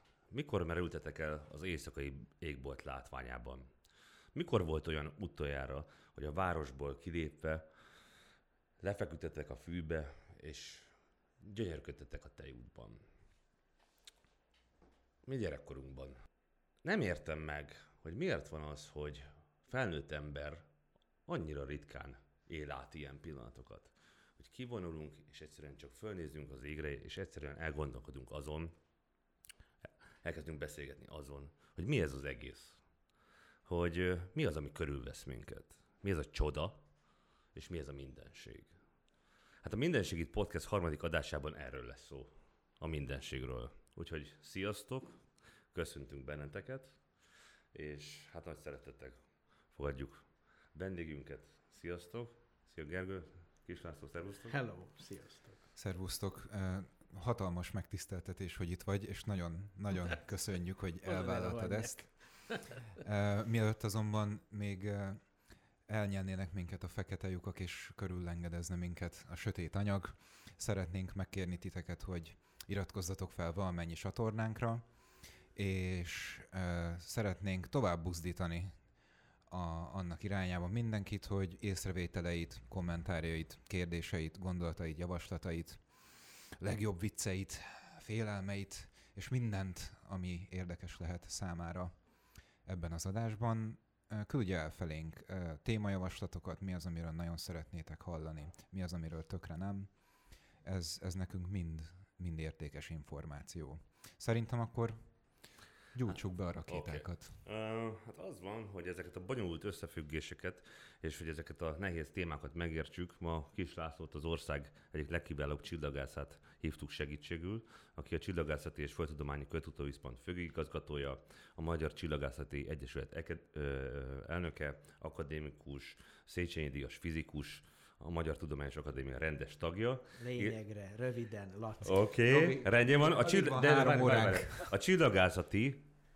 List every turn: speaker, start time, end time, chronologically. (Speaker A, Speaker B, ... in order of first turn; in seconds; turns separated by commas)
Speaker A: 0.3-3.8, Speaker A: 4.3-8.1, Speaker A: 8.8-13.1, Speaker A: 15.2-16.2, Speaker A: 16.8-20.7, Speaker A: 21.2-28.8, Speaker A: 30.2-54.5, Speaker B: 54.5-55.6, Speaker C: 55.8-107.4, Speaker B: 61.0-62.8, Speaker A: 106.1-130.5, Speaker B: 130.2-134.4, Speaker A: 131.8-135.9, Speaker C: 132.5-134.7